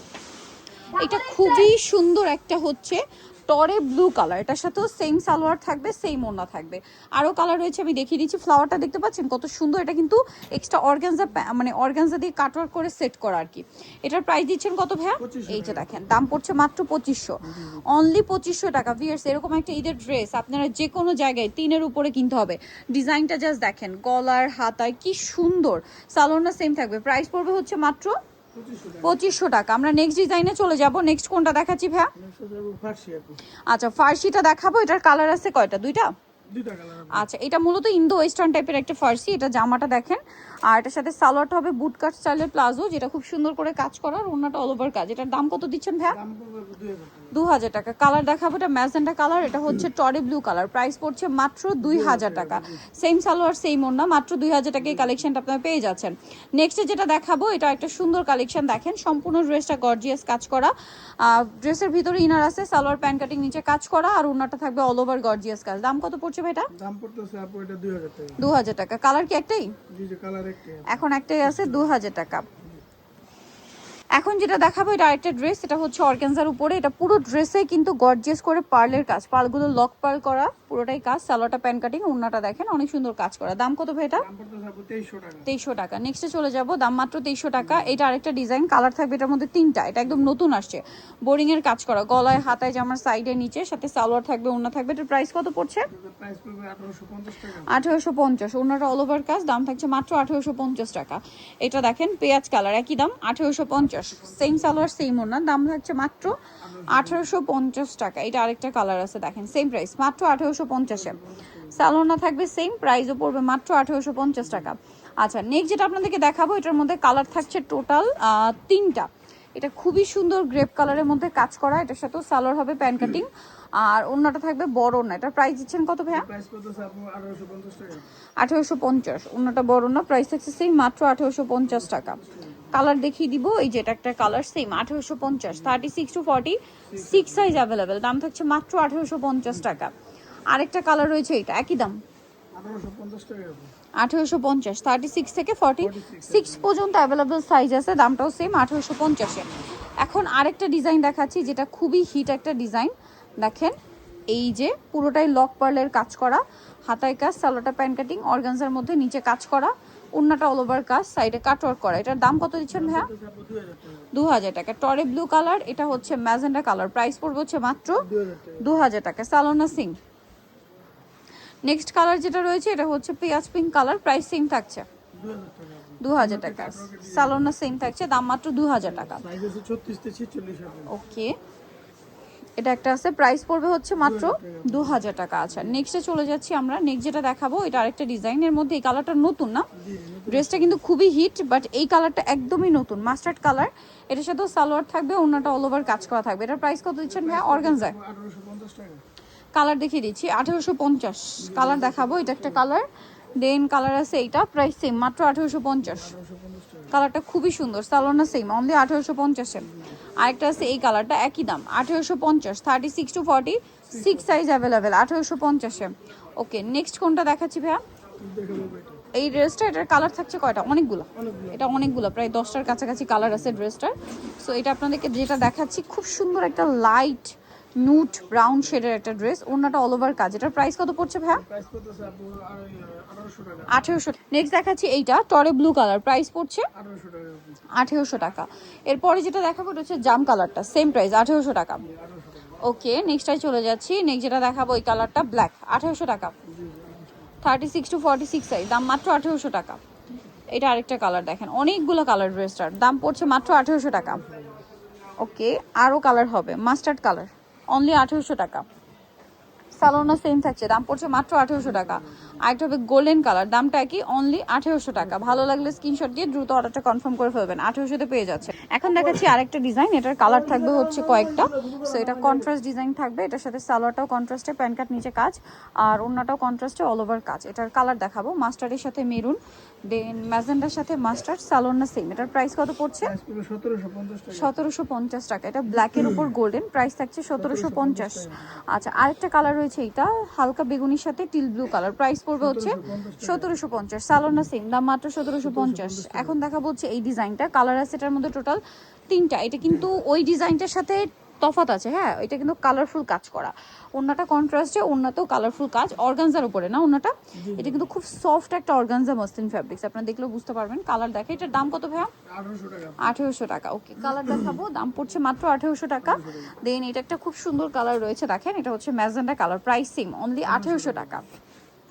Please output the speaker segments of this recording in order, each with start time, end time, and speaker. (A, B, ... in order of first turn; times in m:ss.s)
0:00.9-0:28.2 A
0:15.2-0:16.0 B
0:17.5-0:17.8 B
0:28.5-0:29.2 B
0:29.0-0:32.1 A
0:32.2-0:33.4 B
0:33.7-0:36.1 A
0:36.5-0:37.3 B
0:37.1-0:46.2 A
0:46.1-0:47.4 B
0:47.3-1:06.7 A
0:51.8-0:52.8 B
1:06.7-1:08.4 B
1:08.4-1:09.8 A
1:09.9-1:12.0 B
1:10.9-1:12.5 A
1:12.5-1:12.8 B
1:14.2-1:24.3 A
1:24.2-1:25.5 B
1:25.5-1:35.9 A
1:27.6-1:28.0 B
1:35.9-1:37.8 B
1:37.7-1:51.2 A
1:46.6-1:47.3 B
1:50.9-1:51.8 B
1:51.7-2:06.3 A
2:02.8-2:03.2 B
2:06.1-2:08.1 B
2:08.4-2:12.2 A
2:11.7-2:12.8 B
2:12.7-2:19.9 A
2:16.9-2:17.6 B
2:20.5-2:22.0 A
2:22.5-2:23.7 B
2:24.0-2:33.8 A
2:25.8-2:26.7 B
2:34.3-2:43.1 A
2:42.7-2:44.1 B
2:44.1-2:48.1 A
2:48.0-2:48.8 B
2:48.6-2:50.0 A
2:51.6-2:54.9 A
2:55.1-2:57.6 B
2:56.0-2:59.2 A
2:58.8-3:00.9 B
3:00.9-3:01.4 A
3:02.6-3:09.7 A
3:04.0-3:05.1 B
3:09.8-3:10.8 B
3:10.3-3:18.0 A
3:17.0-3:19.0 B
3:19.6-3:22.9 A
3:21.4-3:22.7 B
3:23.4-3:26.1 A
3:25.8-3:27.0 B
3:26.9-3:37.8 A
3:33.9-3:34.4 B
3:38.2-3:39.0 B
3:39.1-3:51.4 A
3:41.2-3:42.0 B
3:51.3-3:54.0 B
3:53.7-3:56.7 A
3:56.7-3:57.6 B
3:57.7-4:01.8 A
4:01.8-4:02.6 B
4:02.6-4:06.4 A
4:06.4-4:07.3 B
4:07.4-4:09.8 A
4:10.5-4:14.2 A
4:13.9-4:14.6 B
4:15.2-4:18.6 A
4:19.8-4:43.1 A
4:21.6-4:22.4 B
4:25.0-4:25.6 B
4:28.9-4:29.3 B
4:30.2-4:32.5 B
4:43.0-4:44.6 B
4:44.3-5:12.1 A
4:45.7-4:46.3 B
4:47.4-4:48.6 B
4:52.4-4:53.6 B
4:55.4-4:56.4 B
5:07.4-5:07.9 B
5:12.2-5:13.2 B
5:13.0-5:21.3 A
5:14.1-5:14.6 B
5:16.0-5:16.5 B
5:20.4-5:21.3 B